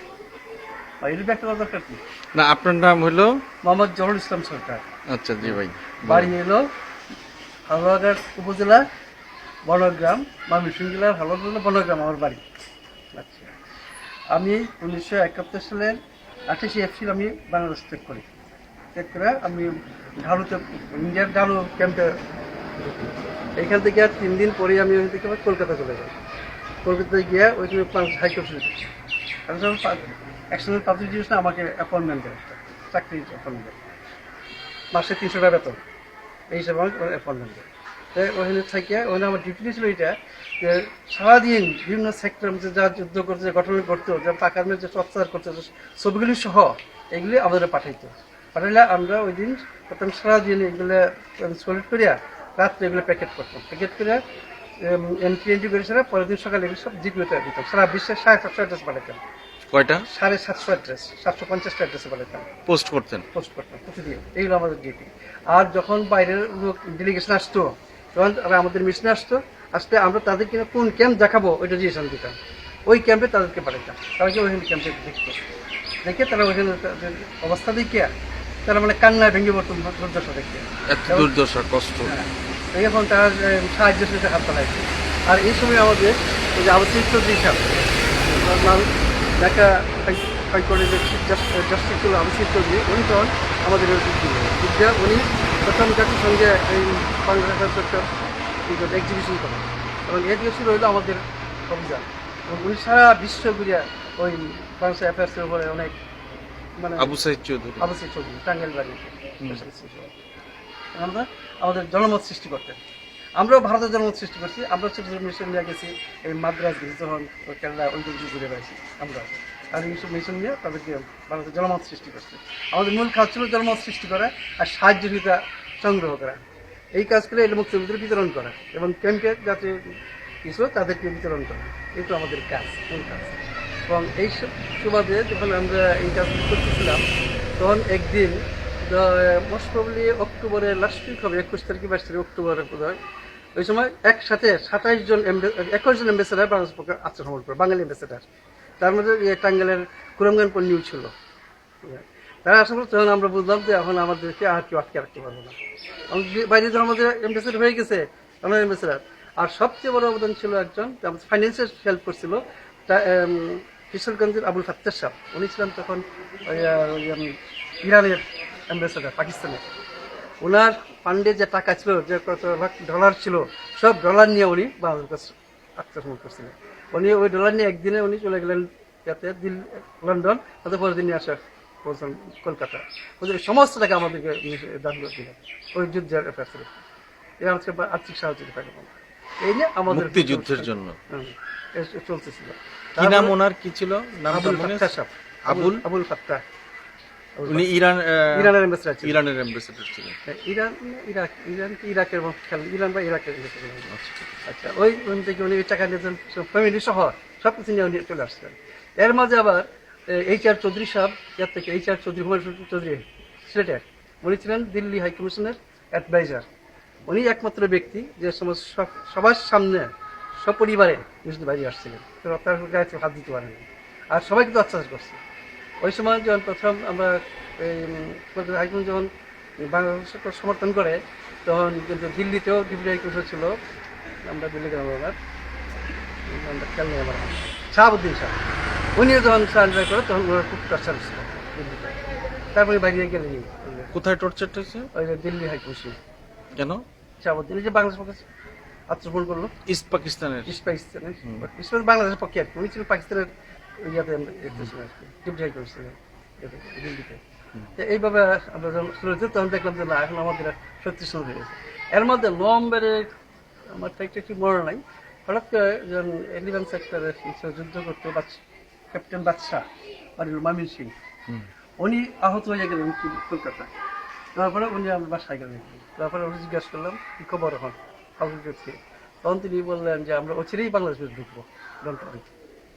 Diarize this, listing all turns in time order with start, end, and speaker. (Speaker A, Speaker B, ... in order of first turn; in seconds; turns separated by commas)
Speaker A: 1.0-2.0, Speaker B: 2.3-3.3, Speaker A: 3.6-4.8, Speaker B: 5.1-6.3, Speaker A: 5.4-6.6, Speaker A: 7.7-8.8, Speaker A: 9.7-12.4, Speaker A: 13.2-13.5, Speaker A: 14.3-16.0, Speaker A: 16.5-18.3, Speaker A: 18.9-22.1, Speaker A: 22.8-26.2, Speaker A: 26.8-28.8, Speaker A: 29.5-33.8, Speaker A: 34.9-35.8, Speaker A: 36.5-54.2, Speaker A: 54.8-59.2, Speaker B: 59.7-60.0, Speaker A: 60.1-62.5, Speaker B: 62.7-63.2, Speaker A: 63.3-72.3, Speaker A: 72.9-75.4, Speaker A: 76.0-78.1, Speaker A: 78.7-81.3, Speaker B: 80.9-82.1, Speaker A: 82.0-87.7, Speaker A: 88.2-88.9, Speaker A: 89.4-98.1, Speaker A: 98.7-106.0, Speaker A: 106.8-107.1, Speaker B: 107.0-107.9, Speaker A: 107.8-110.1, Speaker A: 111.0-112.8, Speaker A: 113.4-126.4, Speaker A: 126.9-129.8, Speaker A: 130.4-137.0, Speaker A: 137.6-143.0, Speaker A: 143.5-148.2, Speaker A: 148.8-151.1, Speaker A: 151.8-155.6, Speaker A: 156.1-169.6, Speaker A: 170.4-186.8, Speaker A: 187.4-193.4, Speaker B: 189.9-190.9, Speaker B: 193.0-194.9, Speaker A: 194.3-196.4, Speaker B: 195.5-195.8, Speaker A: 197.4-197.7, Speaker B: 197.5-198.5, Speaker A: 198.3-199.2, Speaker B: 199.0-200.2, Speaker A: 200.3-203.9, Speaker B: 203.9-204.4, Speaker A: 204.4-216.4, Speaker A: 217.1-225.2, Speaker A: 225.8-229.1, Speaker A: 229.6-233.5, Speaker A: 234.3-235.2, Speaker A: 236.3-238.3, Speaker A: 238.9-241.9, Speaker A: 242.5-243.9, Speaker B: 243.9-244.9, Speaker A: 244.9-246.0, Speaker B: 246.6-246.8, Speaker A: 247.2-248.2, Speaker A: 248.9-249.5, Speaker B: 249.7-250.5, Speaker A: 250.4-253.3, Speaker A: 253.8-257.2, Speaker A: 257.8-263.1, Speaker A: 263.7-269.6, Speaker A: 270.2-270.9, Speaker A: 271.8-273.7, Speaker A: 274.3-282.3